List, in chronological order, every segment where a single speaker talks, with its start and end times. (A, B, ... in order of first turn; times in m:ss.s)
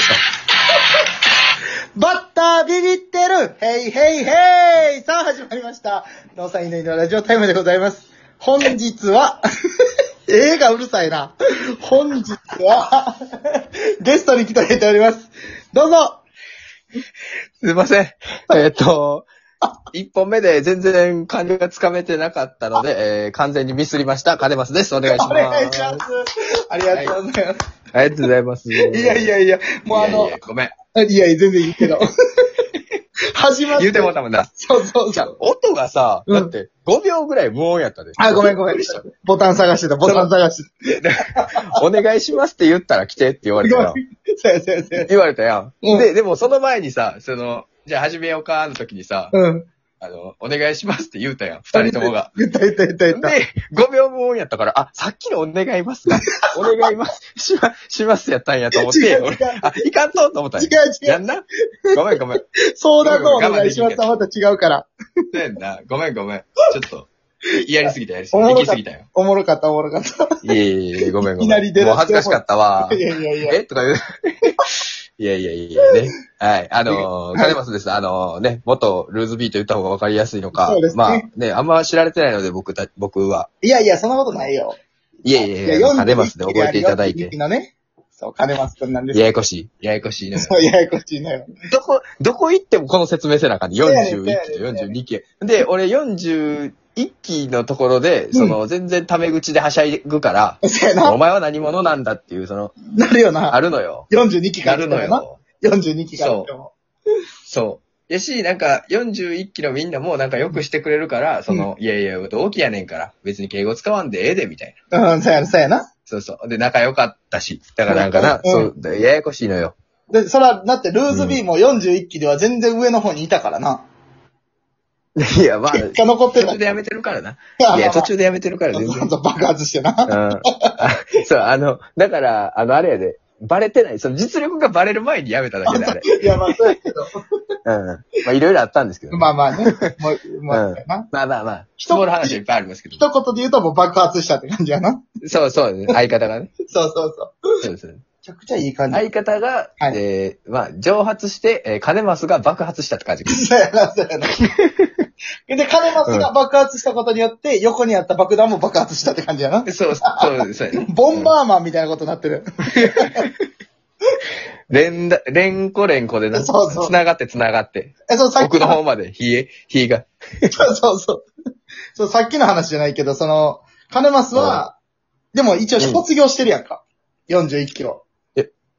0:02.0-0:09.4 A
0:10.3-0:13.2 A
0:14.0-0:16.2 A
0:17.6-0:19.2 B
0:19.9-0:26.0 B
0:25.0-0:27.6 A
0:27.9-0:29.3 B
0:28.8-0:30.4 A
0:29.9-0:30.7 B
0:30.9-0:32.1 A
0:33.3-0:35.4 A
0:33.7-0:34.5 B
0:35.1-0:39.0 B
0:38.2-0:40.7 A
0:40.0-0:40.3 B
0:40.9-0:44.0 B
0:43.6-0:45.1 A
0:45.0-0:49.3 B
0:45.8-0:46.1 A
0:49.3-0:49.7 A
0:50.0-0:52.3 B
0:51.7-0:53.3 A
0:53.1-1:02.4 B
0:56.1-0:56.9 A
0:58.7-0:59.6 A
1:00.6-1:01.2 A
1:02.8-1:04.9 A
1:03.0-1:04.1 B
1:05.3-1:07.1 B
1:07.6-1:09.0 B
1:07.8-1:13.6 A
1:10.4-1:23.5 B
1:16.9-1:17.6 A
1:20.5-1:21.3 A
1:23.6-1:24.8 A
1:25.2-1:27.3 B
1:25.4-1:29.2 A
1:29.1-1:30.5 B
1:30.4-1:31.5 A
1:31.7-1:42.8 B
1:33.8-1:35.0 A
1:38.3-1:38.6 A
1:40.6-1:41.2 A
1:42.9-1:43.6 A
1:43.5-1:44.1 B
1:44.1-1:46.7 A
1:44.6-1:45.4 B
1:46.2-1:46.5 B
1:47.5-1:54.8 B
1:54.9-1:55.8 A
1:56.1-1:59.7 B
1:57.9-1:58.7 A
2:00.1-2:03.9 A
2:01.1-2:01.4 B
2:05.2-2:09.1 B
2:05.7-2:06.6 A
2:07.6-2:08.1 A
2:08.7-2:10.8 A
2:10.1-2:16.6 B
2:15.7-2:17.2 A
2:17.6-2:19.9 B
2:19.1-2:21.1 A
2:20.5-2:23.0 B
2:21.8-2:22.4 A
2:22.9-2:25.0 A
2:25.2-2:26.5 B
2:26.7-2:27.4 A
2:27.6-2:28.0 B
2:28.2-2:29.1 A
2:28.9-2:33.4 B
2:33.3-2:34.3 A
2:34.3-2:35.0 B
2:35.5-2:40.3 A
2:39.6-2:41.3 B
2:40.9-2:43.3 A
2:42.8-2:43.4 B
2:44.7-2:50.5 B
2:46.3-2:46.9 A
2:48.1-2:48.8 A
2:50.5-2:51.3 A
2:51.9-2:54.8 A
2:54.3-2:54.6 B
2:55.3-2:58.0 A
2:55.8-2:56.0 B